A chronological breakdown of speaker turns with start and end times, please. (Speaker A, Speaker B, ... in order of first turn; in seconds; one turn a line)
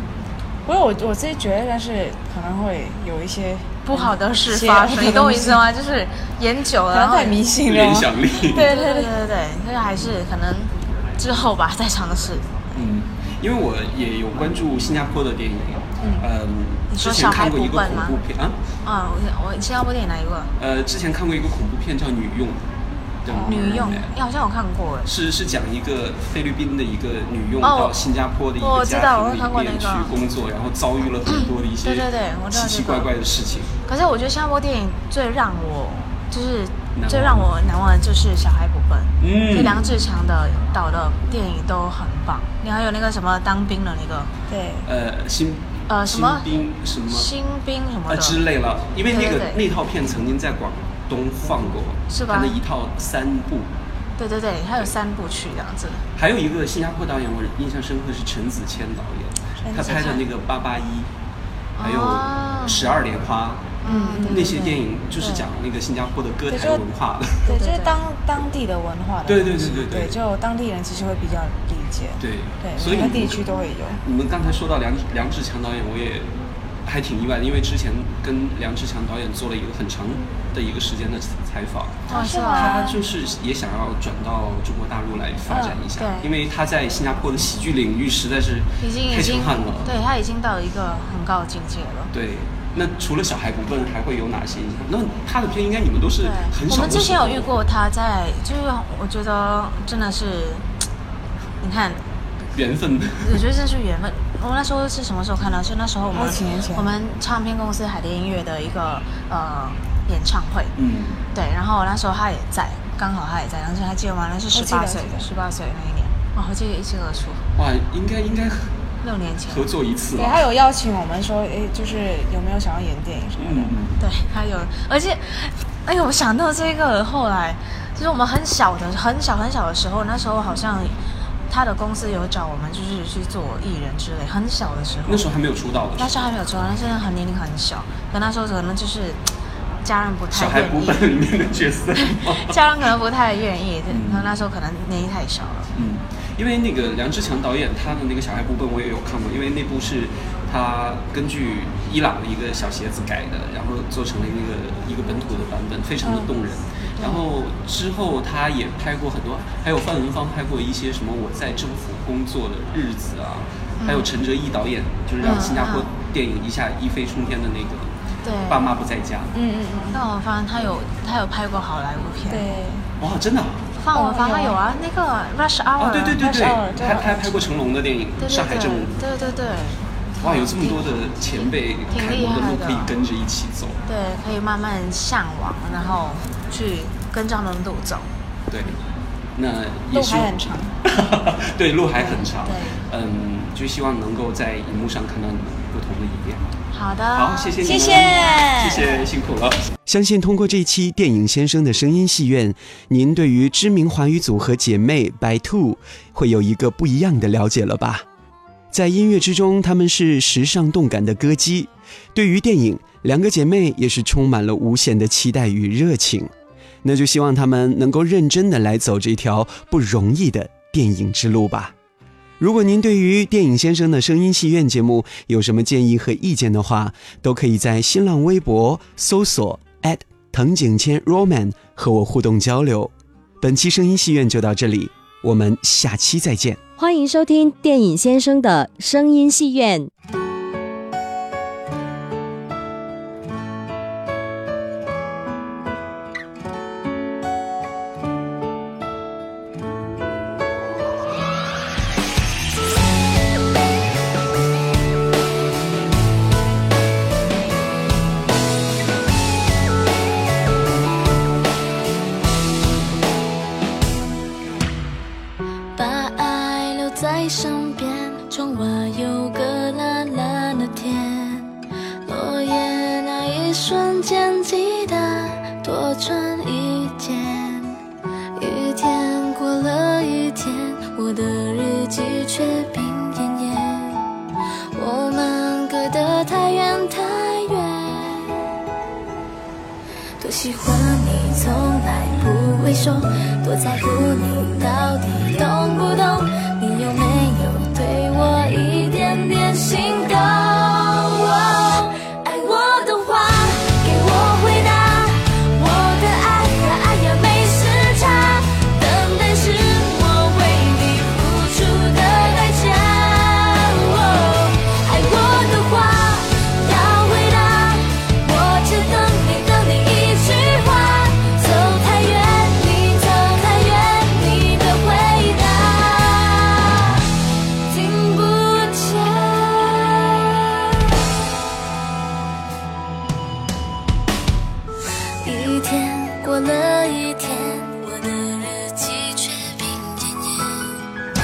Speaker A: 0.7-5.6
Speaker B: 3.8-7.4
Speaker A: 6.9-9.1
Speaker C: 7.6-8.7
Speaker B: 8.5-12.6
Speaker C: 12.7-18.6
Speaker B: 16.9-18.1
Speaker B: 18.8-20.5
Speaker C: 20.6-22.6
Speaker C: 23.2-24.1
Speaker A: 23.3-23.7
Speaker B: 23.3-25.1
Speaker C: 25.1-33.7
Speaker B: 27.6-27.9
Speaker B: 28.6-30.1
Speaker B: 31.8-33.1
Speaker B: 33.9-44.3
Speaker C: 36.9-37.5
Speaker C: 39.2-40.0
Speaker A: 44.5-44.9
Speaker C: 44.8-47.3
Speaker B: 45.9-46.5
Speaker B: 47.1-48.4
Speaker C: 48.1-53.7
Speaker B: 49.1-49.6
Speaker B: 52.1-52.6
Speaker B: 54.2-56.0
Speaker C: 56.1-61.1
Speaker A: 59.6-60.2
Speaker B: 59.9-60.2
Speaker B: 61.8-62.9
Speaker C: 61.8-67.4
Speaker B: 63.8-65.4
Speaker A: 63.8-64.8
Speaker A: 66.5-66.8
Speaker A: 67.5-74.0
Speaker B: 67.5-68.0
Speaker C: 69.2-70.2
Speaker C: 72.2-73.4
Speaker C: 74.0-76.3
Speaker C: 76.8-89.9
Speaker A: 82.1-83.0
Speaker B: 82.1-82.8
Speaker A: 85.5-85.8
Speaker B: 86.0-86.3
Speaker B: 88.8-92.1
Speaker C: 92.1-97.5
Speaker B: 96.2-100.7
Speaker B: 101.6-102.0
Speaker C: 102.5-103.4
Speaker B: 103.2-110.7
Speaker A: 106.1-106.9
Speaker C: 110.8-111.2
Speaker B: 111.3-117.5
Speaker A: 114.5-115.3
Speaker C: 117.6-118.7
Speaker B: 119.0-119.7
Speaker C: 119.5-120.4
Speaker A: 120.1-123.7
Speaker C: 123.3-124.0
Speaker B: 124.0-130.9
Speaker B: 131.5-135.3
Speaker C: 135.1-136.2
Speaker B: 136.0-139.2
Speaker B: 139.8-141.0
Speaker C: 140.3-142.6
Speaker B: 142.0-145.7
Speaker C: 143.9-144.3
Speaker C: 145.7-167.9
Speaker A: 156.0-156.3
Speaker B: 157.0-157.2
Speaker B: 163.8-164.1
Speaker B: 165.2-165.9
Speaker A: 165.3-165.6
Speaker B: 168.2-168.6
Speaker C: 168.5-169.3
Speaker A: 169.3-170.0
Speaker B: 169.9-172.4
Speaker A: 172.3-172.9
Speaker C: 173.0-173.6
Speaker B: 173.8-176.2
Speaker A: 173.9-174.6
Speaker C: 175.8-179.0
Speaker A: 176.1-177.5
Speaker B: 178.2-182.9
Speaker C: 180.2-183.8
Speaker B: 183.9-188.1
Speaker C: 188.5-188.8
Speaker C: 189.3-196.4
Speaker A: 189.9-190.7
Speaker B: 192.4-192.8
Speaker B: 196.7-198.8
Speaker C: 197.1-199.6
Speaker A: 197.6-199.0
Speaker D: 199.8-208.0
Speaker D: 208.7-216.3
Speaker D: 216.8-221.7
Speaker D: 222.4-236.7
Speaker E: 236.8-239.9
Speaker F: 265.8-271.5
Speaker F: 272.0-277.8
Speaker F: 278.4-284.1
Speaker F: 284.7-288.5
Speaker F: 290.2-327.1
Speaker F: 327.7-330.6
Speaker F: 335.2-340.9